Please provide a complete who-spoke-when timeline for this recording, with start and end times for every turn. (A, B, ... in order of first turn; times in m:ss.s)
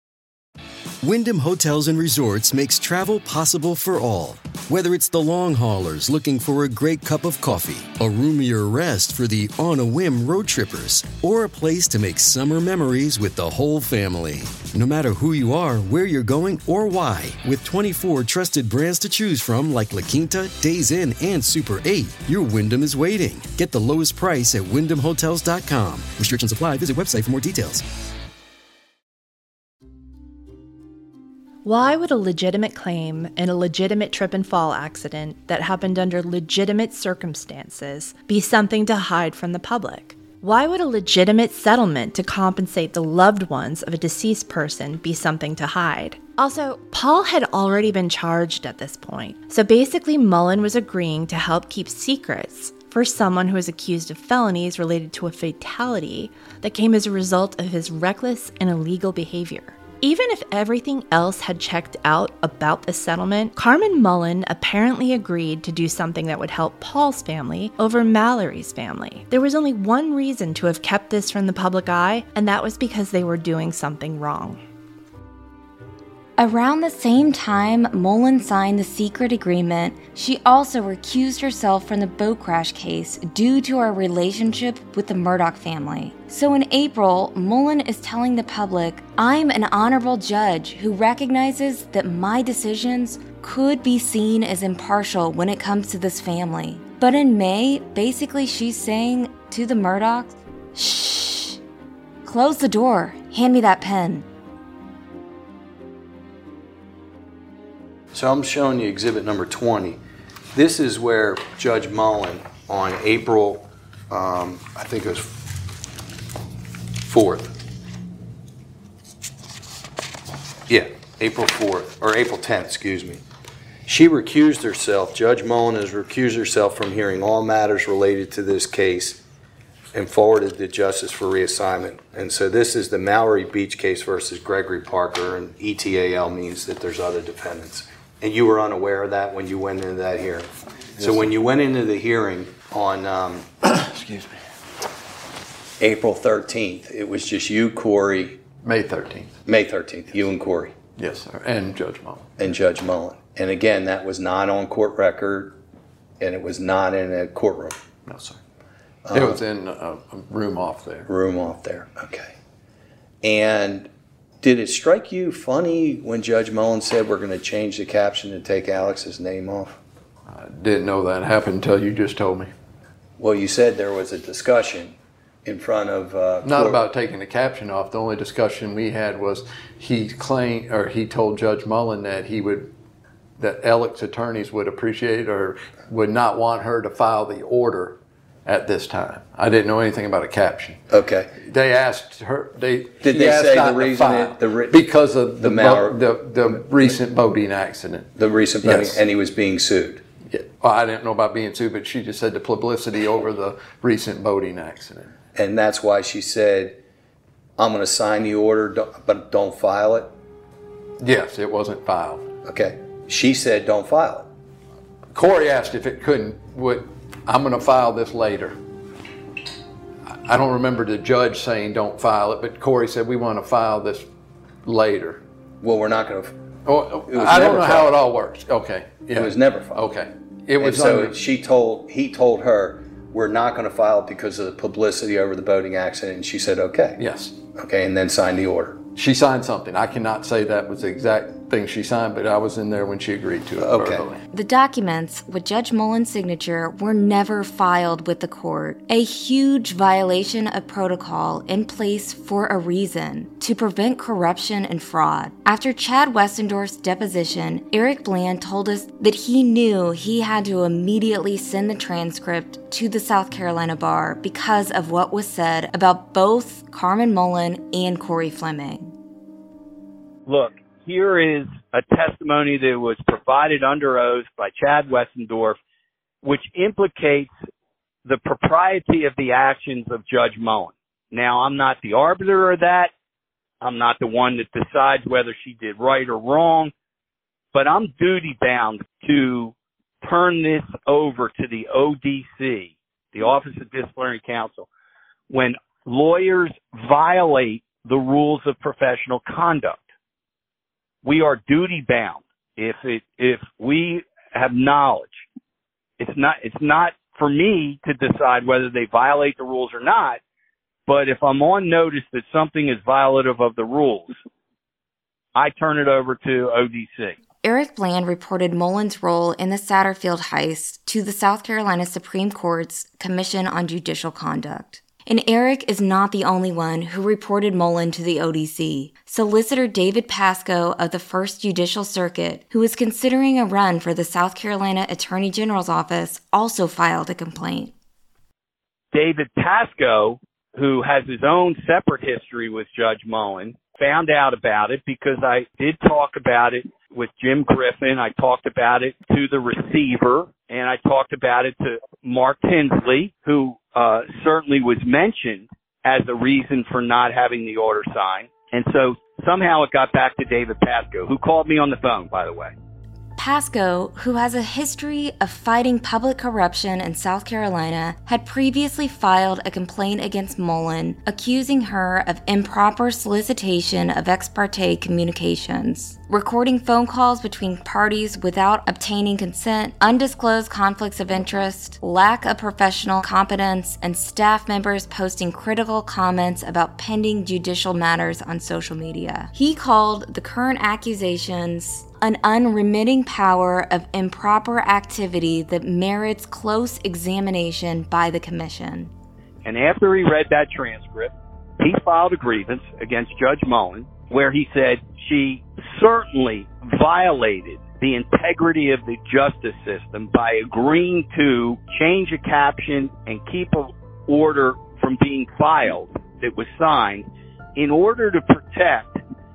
0:01.0-0:27.8 A
0:31.6-1:14.6 B
1:16.4-1:41.6 C
1:42.2-1:44.2 C
1:48.1-1:50.0 D
1:50.5-1:55.5 D
1:57.0-1:57.6 D
2:00.7-2:03.2 D
2:03.9-2:09.2 D
2:09.9-2:23.5 D
2:21.0-2:21.3 E
2:23.6-2:24.4 E
2:25.8-2:28.4 D
2:28.6-2:29.4 E
2:29.4-2:30.7 D
2:31.0-2:32.4 E
2:32.4-2:35.6 D
2:36.2-2:37.8 D
2:38.0-2:38.4 E
2:39.0-2:39.4 D
2:39.1-2:41.1 E
2:41.1-2:42.3 D
2:43.2-2:43.9 D
2:44.4-2:49.8 D
2:50.3-2:52.5 E
2:53.2-2:56.8 D
2:56.4-3:02.7 E
3:03.4-3:10.8 E
3:10.9-3:11.3 D
3:11.4-3:18.1 E
3:13.0-3:14.8 D
3:15.4-3:16.7 D
3:18.2-3:20.0 D
3:18.6-3:19.0 E
3:20.2-3:25.1 E
3:25.3-3:26.8 D
3:27.6-3:30.1 D
3:31.0-3:32.3 E
3:32.4-3:34.3 D
3:35.1-3:38.6 E
3:40.1-3:44.1 E
3:44.6-3:45.2 E
3:45.6-3:46.4 D
3:46.6-3:51.2 E
3:47.1-3:47.9 D
3:49.2-3:49.8 D
3:50.6-3:57.0 D
3:57.0-3:57.4 E
3:57.6-3:58.8 D
3:58.9-4:04.2 E
4:03.6-4:04.0 D
4:04.3-4:28.9 C
4:30.3-4:35.6 F
4:36.2-4:37.3 F
4:38.0-4:42.9 F
4:43.6-4:46.7 F
4:47.5-4:54.7 F
4:55.3-4:59.8 F
5:01.0-5:05.2 F
5:06.0-5:10.2 F
5:10.9-5:14.2 F
5:15.3-5:17.2 F
5:17.4-5:37.7 C
5:38.9-6:02.5 F
6:03.2-6:38.9 C
6:39.4-6:59.0 F